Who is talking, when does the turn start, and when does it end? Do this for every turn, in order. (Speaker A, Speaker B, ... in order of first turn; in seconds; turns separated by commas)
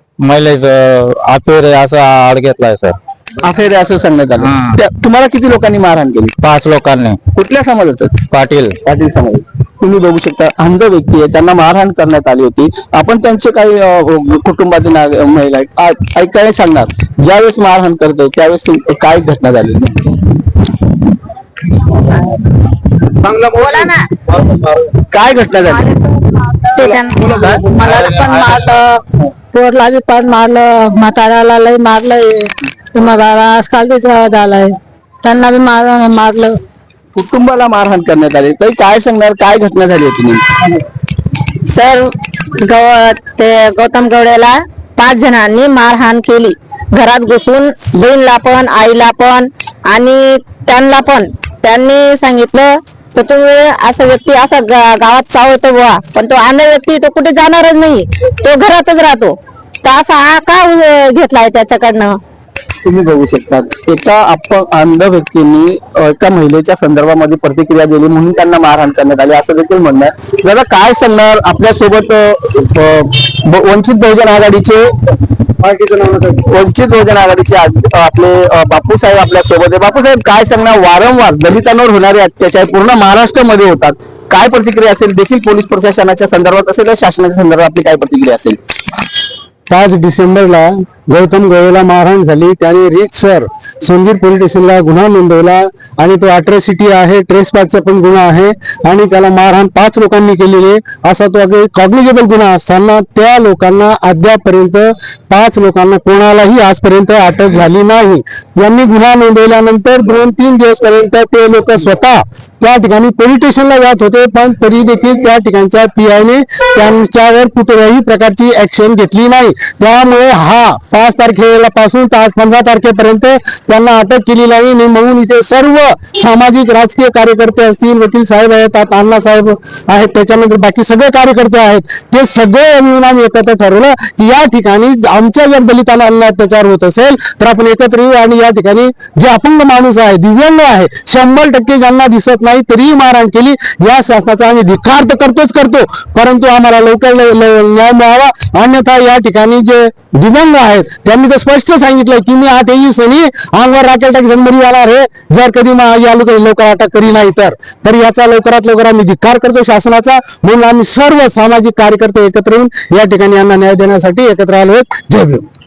Speaker A: 0.2-3.0, Speaker B: 3.4-6.3, Speaker A: 4.4-4.8, Speaker A: 6.4-7.2, Speaker B: 7.3-8.2, Speaker A: 8.3-8.8, Speaker B: 8.8-20.2, Speaker C: 22.1-22.4, Speaker C: 23.3-24.1, Speaker B: 25.1-25.8, Speaker C: 25.5-36.5, Speaker B: 27.1-27.6, Speaker A: 27.8-28.7, Speaker B: 37.1-40.6, Speaker C: 41.7-62.2, Speaker B: 62.8-74.9, Speaker D: 75.6-76.5, Speaker B: 76.4-88.6, Speaker D: 89.7-165.4